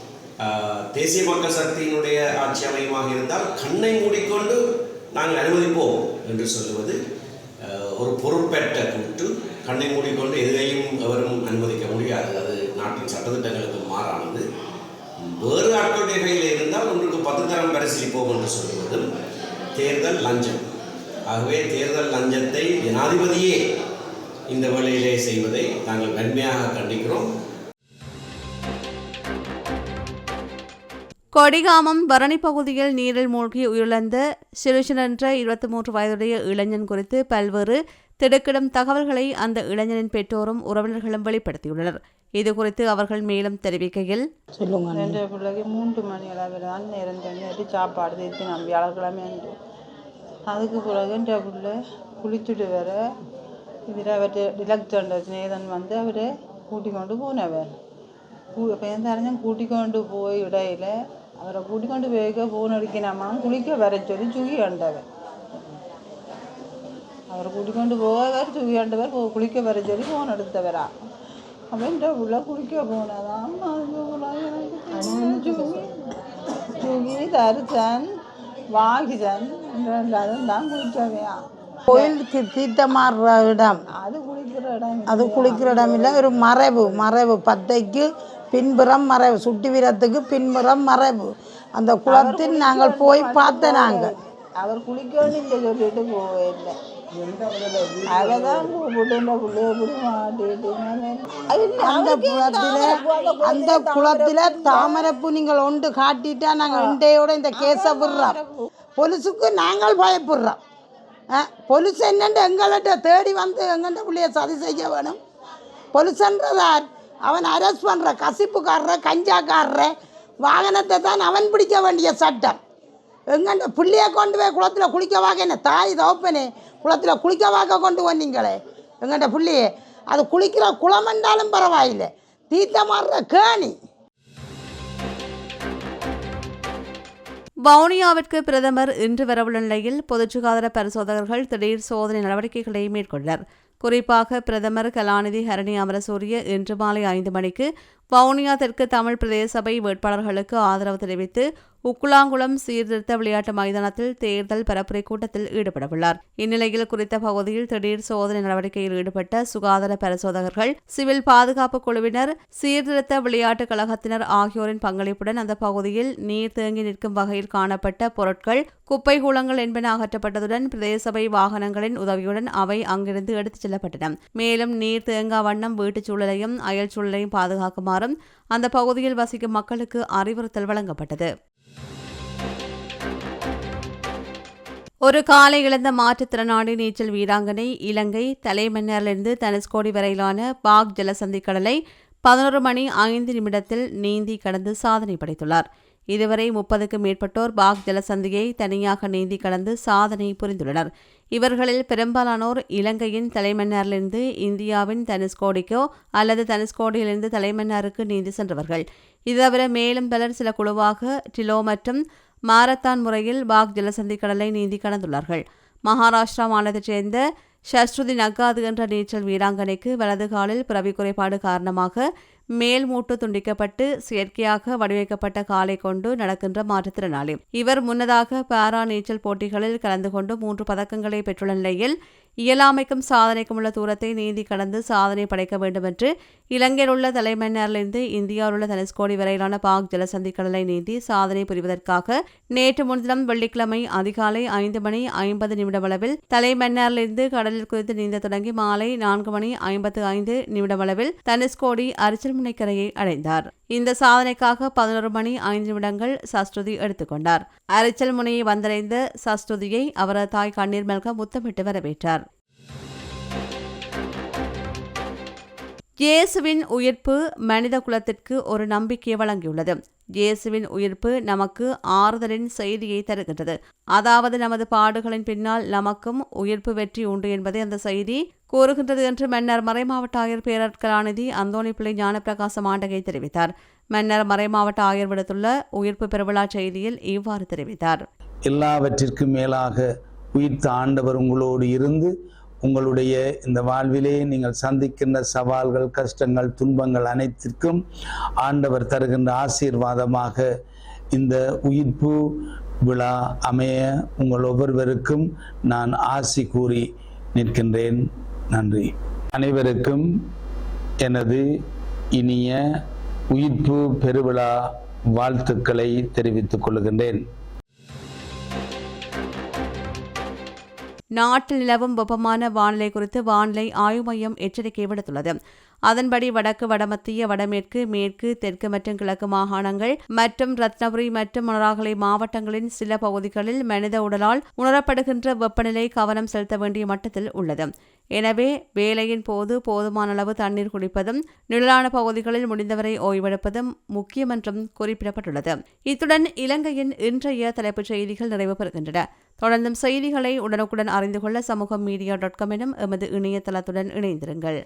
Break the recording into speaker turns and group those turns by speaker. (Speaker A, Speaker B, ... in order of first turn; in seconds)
Speaker A: 0.4-7.0, 7.6-14.4, 15.2-19.1, 19.8-20.6, 21.3-23.6, 24.5-27.3
Speaker B: 31.4-44.2, 137.7-181.3, 185.1-222.1, 222.6-231.9, 232.4-262.2, 266.0-288.0, 321.1-325.4, 325.9-354.6
Speaker C: 44.6-45.2, 75.0-75.7, 81.9-83.8, 85.0-94.1, 101.8-108.4, 109.0-110.6, 111.3-115.2, 115.9-122.6, 123.3-133.7
Speaker D: 44.9-49.5, 50.5-53.0, 53.9-57.7, 58.5-65.0, 67.3-70.9, 71.7-76.0, 76.8-78.1, 78.7-82.1, 83.9-87.0, 92.1-96.8, 98.0-105.2, 106.6-107.0, 107.5-108.7
Speaker E: 288.5-292.1, 292.6-297.8, 298.4-300.5, 301.1-302.2, 302.9-306.8, 307.4-308.0, 308.5-310.0, 311.0-311.4, 312.2-312.6, 313.3-314.5, 315.2-317.2